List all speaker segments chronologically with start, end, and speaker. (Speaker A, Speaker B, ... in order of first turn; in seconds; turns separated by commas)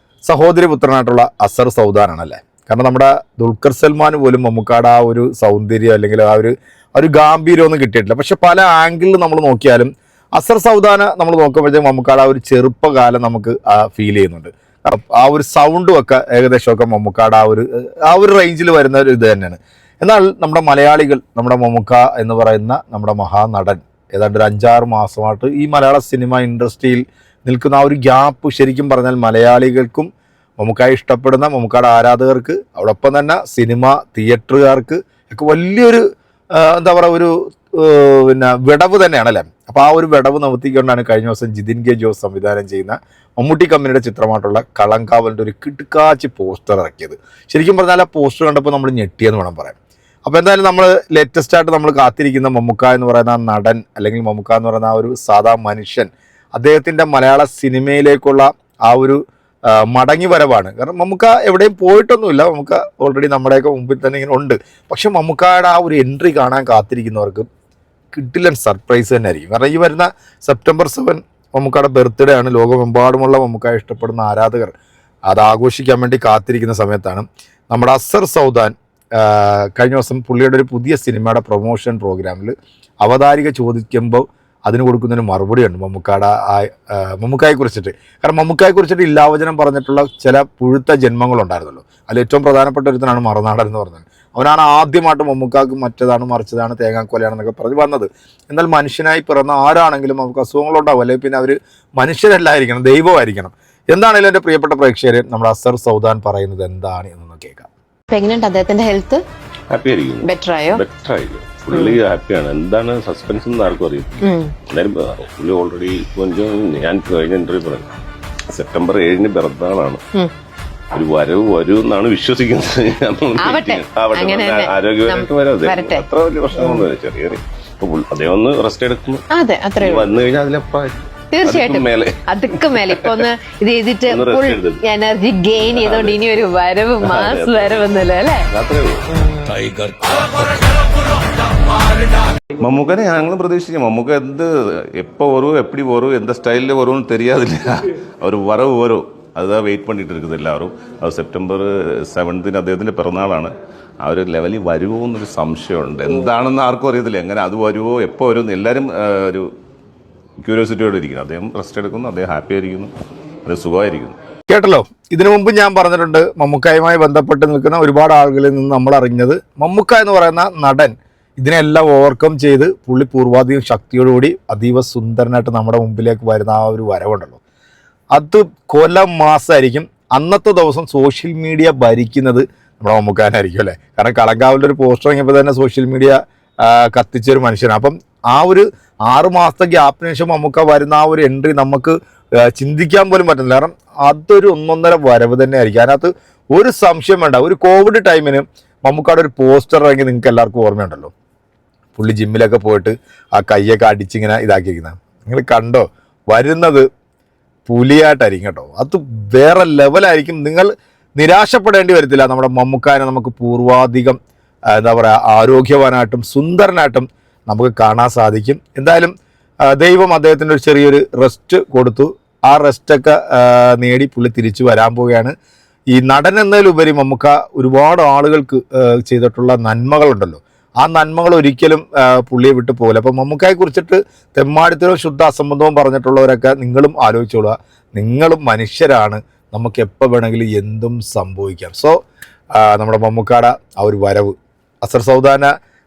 Speaker A: 0.3-59.2, Speaker A: 59.7-67.5, Speaker A: 68.1-74.7, Speaker A: 75.3-107.7, Speaker B: 108.1-109.2, Speaker C: 109.7-118.0, Speaker B: 110.2-110.8, Speaker B: 111.7-112.0, Speaker B: 114.2-114.5, Speaker C: 118.5-120.0, Speaker C: 120.9-129.2, Speaker B: 123.4-126.9, Speaker B: 129.3-130.1, Speaker C: 129.8-133.3, Speaker B: 131.3-138.5, Speaker C: 134.1-134.8, Speaker C: 135.6-136.4, Speaker C: 137.0-139.1, Speaker B: 139.1-139.7, Speaker C: 139.7-140.3, Speaker C: 142.6-159.5, Speaker C: 160.4-162.9, Speaker C: 163.4-164.2, Speaker A: 164.5-177.4, Speaker A: 178.1-201.1, Speaker A: 201.9-206.9, Speaker A: 207.7-214.2, Speaker A: 214.8-219.1, Speaker A: 219.7-225.3, Speaker A: 225.9-242.0, Speaker A: 242.6-245.5